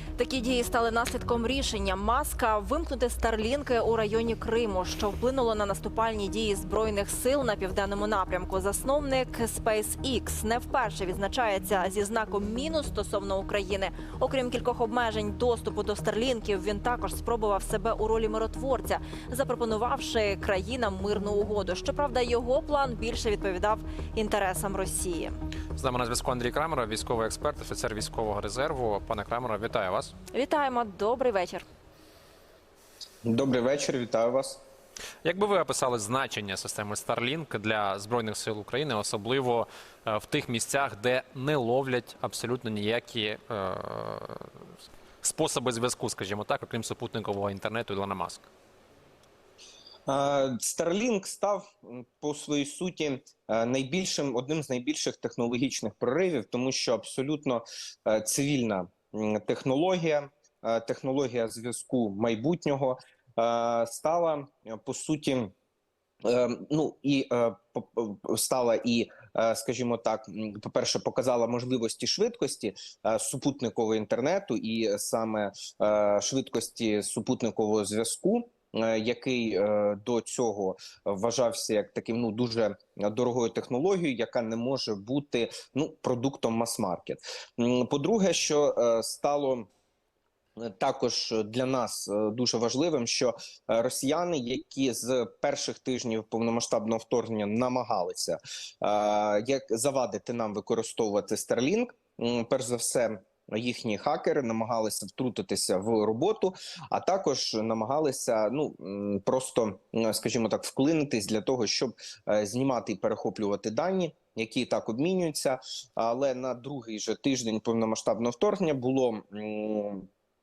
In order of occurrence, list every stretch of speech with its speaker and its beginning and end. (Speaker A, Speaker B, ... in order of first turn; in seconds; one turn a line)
Speaker A: 0.2-25.3
Speaker B: 25.8-30.1
Speaker A: 30.3-31.6
Speaker C: 33.2-34.6
Speaker B: 35.2-44.5
Speaker B: 45.2-48.5
Speaker C: 50.1-65.5
Speaker C: 66.2-89.7
Speaker C: 90.6-120.1